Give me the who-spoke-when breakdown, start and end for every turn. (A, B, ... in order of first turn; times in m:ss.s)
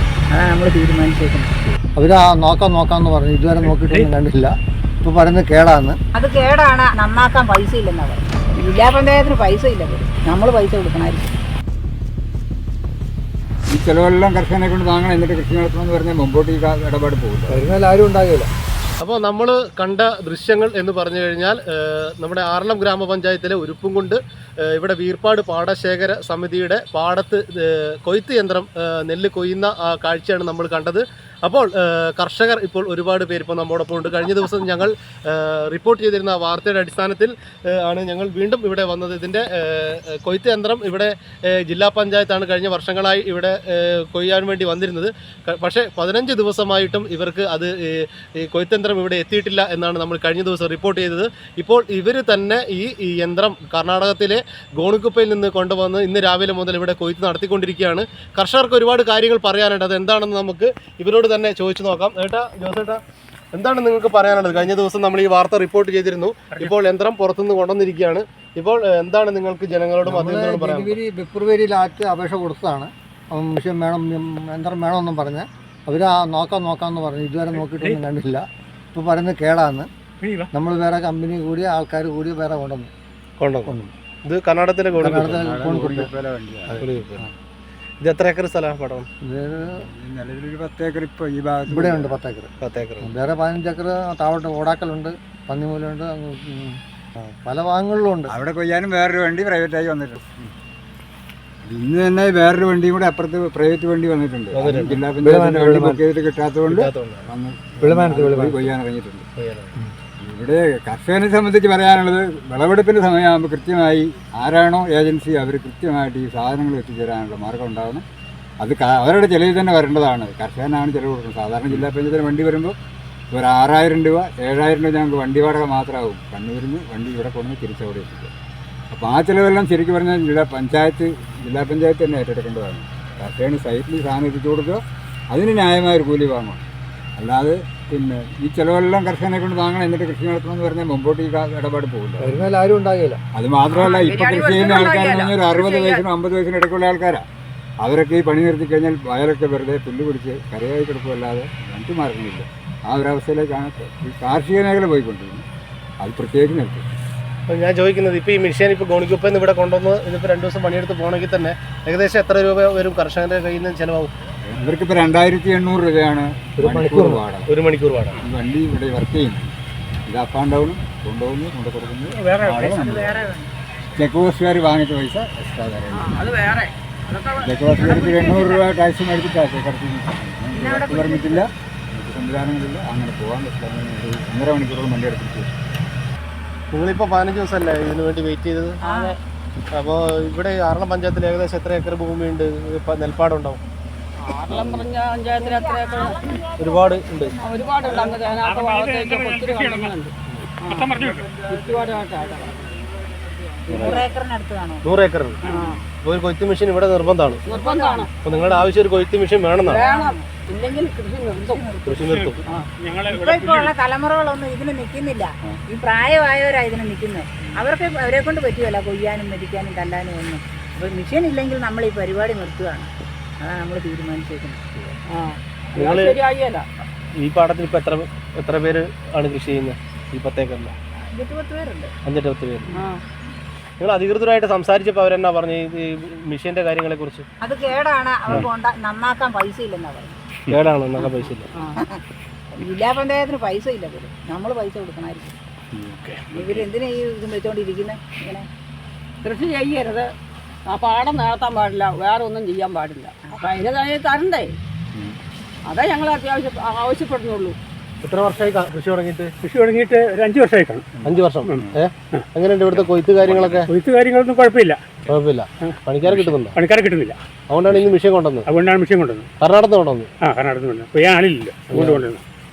0:00.3-0:01.6 A
0:02.0-0:06.0 B
0:03.6-0:03.9 C
0:06.1-0:11.3 A
0:13.7-0:17.6 D
0:17.5-0:18.5 B
0:19.0-1:03.0 E
1:03.5-1:11.0 E
1:10.0-1:19.9 B
1:17.5-1:18.0 C
1:20.2-1:20.5 C
1:20.5-1:22.9 B
1:23.4-1:23.7 E
1:24.2-1:25.4 E
1:24.9-1:26.1 B
1:25.1-1:27.3 D
1:26.7-1:27.3 E
1:28.0-1:29.1 E
1:29.2-1:29.9 B
1:29.6-1:32.2 D
1:31.6-1:32.5 B
1:32.6-1:33.1 E
1:33.0-1:38.3 B
1:38.3-1:40.5 D
1:41.6-1:49.2 D
1:44.5-1:45.0 E
1:45.1-1:46.0 B
1:46.7-1:47.3 E
1:47.8-1:48.7 B
1:49.4-1:49.7 E
1:50.2-1:58.0 D
1:58.6-2:02.7 D
2:03.3-2:08.3 D
2:08.9-2:16.6 D
2:17.2-2:22.4 D
2:22.2-2:23.2 B
2:23.3-2:27.2 D
2:23.7-2:26.0 F
2:27.8-2:35.4 D
2:36.0-2:36.8 D
2:37.5-2:44.1 E
2:44.4-2:47.5 D
2:46.6-2:47.2 B
2:47.4-2:48.2 E
2:48.2-2:49.5 D
2:50.1-2:53.3 D
2:52.1-2:52.7 C
2:52.6-2:53.5 A
2:53.9-2:56.2 D
2:55.9-2:58.6 F
2:57.4-3:05.6 D
3:00.5-3:01.5 A
3:06.7-3:08.8 E
3:08.8-3:09.2 A
3:08.8-3:09.2 F
3:09.7-3:13.6 E
3:14.2-3:16.4 F
3:14.5-3:14.8 D
3:15.4-3:18.1 A
3:16.6-3:17.4 E
3:17.4-3:22.8 F
3:18.0-3:20.0 C
3:20.6-3:21.4 C
3:23.7-3:24.1 E
3:23.7-3:24.8 A
3:24.8-3:27.4 E
3:25.5-3:25.8 C
3:25.5-3:25.8 F
3:27.4-3:28.1 F
3:27.4-3:28.6 A
3:28.2-3:29.8 E
3:29.6-3:31.7 F
3:29.6-3:30.3 A
3:31.4-3:32.2 A
3:31.8-3:32.4 E
3:32.0-3:33.7 C
3:33.1-3:42.9 A
3:43.4-3:44.6 A
3:45.1-3:46.6 F
3:45.7-3:46.2 E
3:47.1-3:50.7 E
3:51.1-3:51.9 A
3:52.0-3:52.7 E
3:52.8-3:53.0 F
3:53.8-3:57.2 E
3:57.4-4:00.2 A
4:00.5-4:01.5 E
4:01.5-4:01.8 F
4:01.8-4:02.0 A
4:02.5-4:05.4 A
4:05.8-4:06.4 E
4:06.3-4:08.5 A
4:09.2-4:10.1 F
4:10.6-4:14.6 F
4:15.7-4:17.6 F
4:18.0-4:19.3 E
4:19.4-4:20.9 C
4:21.0-4:23.7 E
4:21.1-4:21.7 D
4:23.3-4:23.6 D
4:23.6-4:24.8 C
4:25.1-4:26.6 E
4:25.6-4:27.2 C
4:27.5-4:28.5 E
4:28.4-4:29.3 C
4:29.4-4:30.1 E
4:30.2-4:32.2 C
4:31.7-4:32.0 E